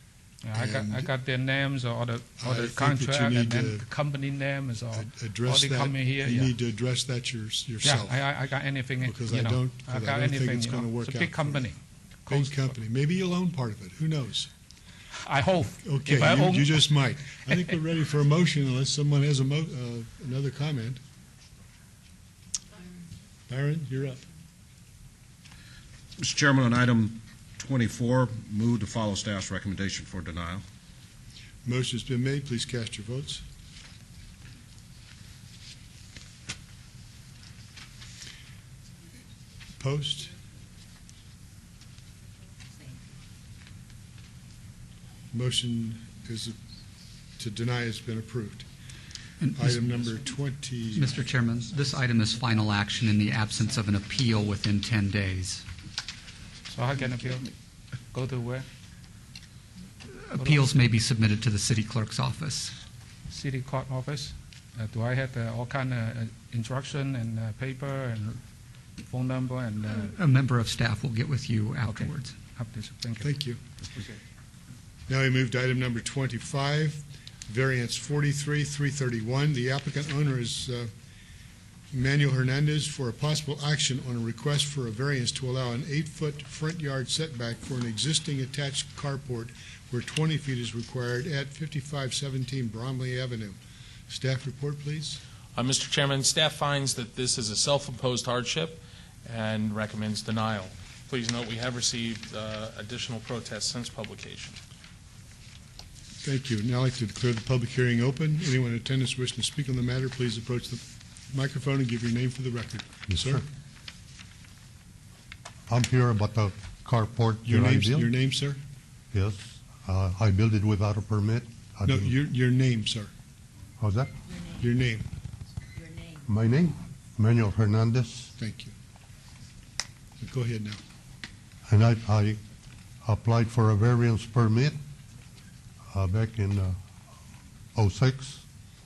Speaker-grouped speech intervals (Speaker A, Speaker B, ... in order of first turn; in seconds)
Speaker A: 0.4-6.5, 7.8-12.7, 15.2-17.0, 56.7-57.5, 58.1-58.6, 60.4-60.6, 63.3-68.4, 69.0-70.1, 71.8-73.3
Speaker B: 0.5-1.1, 2.4-3.9, 4.9-8.3, 9.0-11.7, 12.3-14.5, 15.8-21.0, 23.5-24.3, 31.6-33.4, 39.8-40.3, 45.3-46.5, 47.4-48.7, 49.5-51.3, 73.2-73.6, 75.1-80.9, 81.9-93.6, 94.1-95.2, 106.2-113.4, 117.4-118.6, 121.8-123.1, 124.6-125.1, 128.4-128.7, 130.2-130.8
Speaker C: 26.2-30.6
Speaker D: 49.4-50.1, 50.9-55.6, 60.1-62.7, 69.8-72.3
Speaker E: 95.5-104.6
Speaker F: 113.1-113.4, 115.7-118.1, 119.1-122.1, 123.8-124.1, 126.2-128.3, 131.7-132.4, 133.0-134.8, 135.9-136.8, 137.7-138.4